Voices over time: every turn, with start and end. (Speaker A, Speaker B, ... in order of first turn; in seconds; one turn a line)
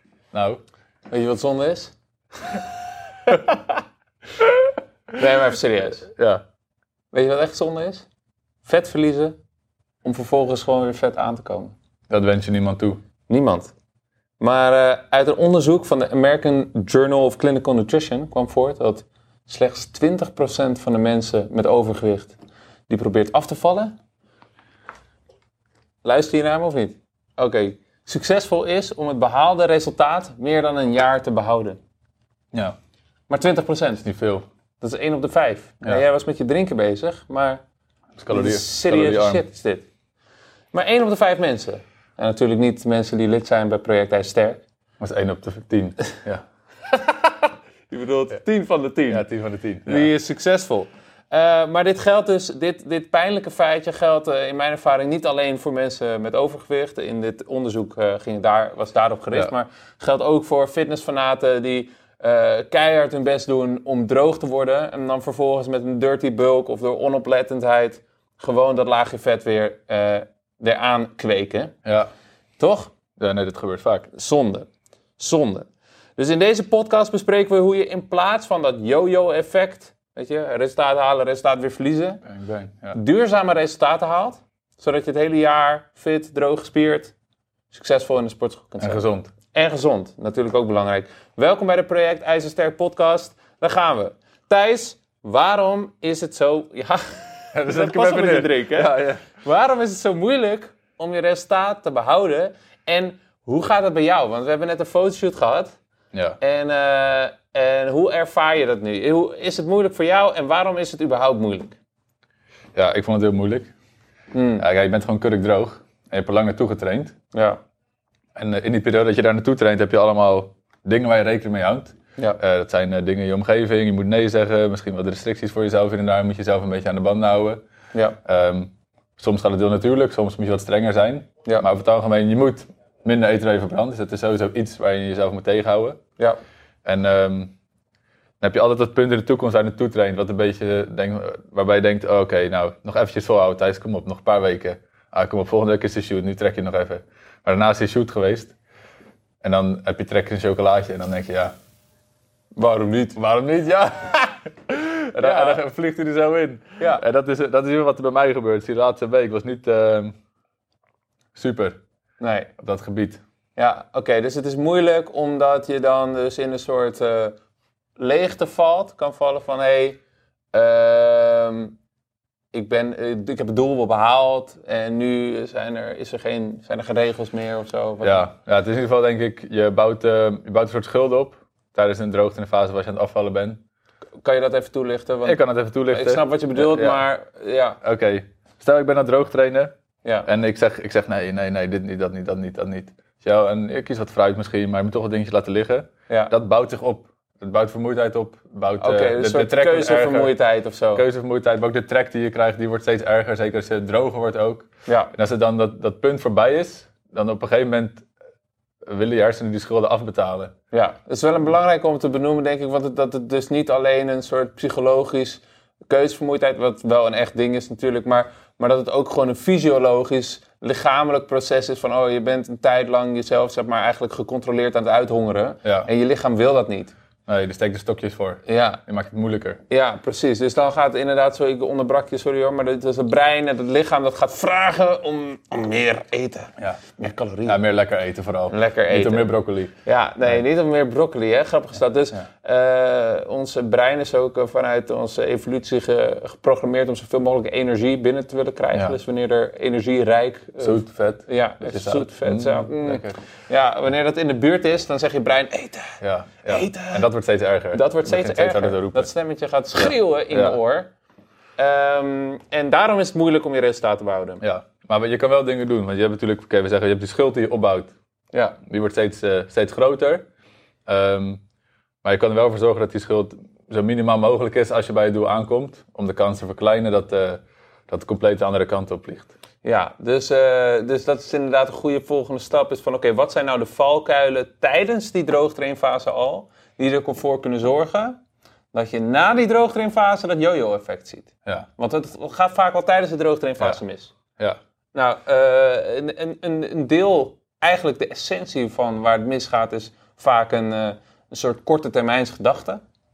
Speaker A: 0.3-0.6
Speaker B: 1.1-1.9
Speaker B: 5.1-6.1
Speaker B: 7.1-8.1
Speaker B: 8.6-9.3
Speaker B: 10.0-11.7
Speaker A: 12.1-13.0
Speaker B: 13.3-13.7
Speaker B: 14.4-22.4
Speaker B: 22.9-23.9
Speaker B: 26.0-31.8
Speaker B: 33.3-34.1
Speaker A: 34.0-34.4
Speaker B: 34.8-37.6
Speaker A: 38.2-39.4
Speaker B: 38.3-39.9
Speaker B: 40.7-44.6
Speaker A: 45.0-46.4
Speaker B: 47.9-49.2
Speaker A: 49.1-50.1
Speaker B: 49.9-71.7
Speaker A: 71.8-72.1
Speaker B: 72.6-72.9
Speaker A: 73.2-74.1
Speaker B: 74.1-74.7
Speaker B: 75.2-75.7
Speaker B: 76.2-82.2
Speaker A: 82.2-83.0
Speaker B: 82.9-87.1
Speaker B: 87.7-105.7
Speaker A: 88.8-89.3
Speaker A: 97.5-99.2
Speaker B: 106.4-111.8
Speaker A: 112.7-113.7
Speaker B: 114.3-114.6
Speaker A: 114.6-117.2
Speaker B: 117.3-117.6
Speaker A: 118.3-127.6
Speaker A: 128.2-136.0
Speaker A: 136.8-137.5
Speaker A: 138.4-148.5
Speaker A: 149.4-151.5
Speaker B: 152.6-153.2
Speaker A: 153.2-160.1
Speaker B: 155.2-155.6
Speaker A: 161.3-161.8
Speaker B: 162.2-162.5
Speaker A: 162.6-163.2
Speaker B: 163.6-167.4
Speaker B: 168.0-170.0
Speaker B: 170.5-171.8
Speaker B: 172.5-178.3
Speaker A: 178.0-183.6
Speaker B: 184.2-187.8
Speaker A: 185.2-187.0
Speaker A: 187.8-189.7
Speaker A: 190.2-200.4
Speaker B: 198.8-201.0
Speaker A: 200.9-208.1
Speaker B: 204.9-205.1
Speaker A: 208.8-210.5
Speaker B: 210.7-226.9
Speaker A: 225.6-225.9
Speaker A: 227.3-229.6
Speaker B: 228.5-228.8
Speaker B: 229.7-237.6
Speaker A: 237.5-239.7
Speaker B: 238.5-239.3
Speaker B: 239.8-257.0
Speaker A: 250.6-253.2
Speaker A: 256.0-259.1
Speaker B: 257.7-260.9
Speaker A: 260.3-260.6
Speaker B: 261.6-264.4
Speaker A: 264.4-267.9
Speaker B: 268.3-268.6
Speaker A: 268.6-270.2
Speaker A: 270.9-271.4
Speaker A: 272.0-279.3
Speaker B: 279.6-288.2
Speaker B: 288.7-294.1
Speaker B: 294.9-302.8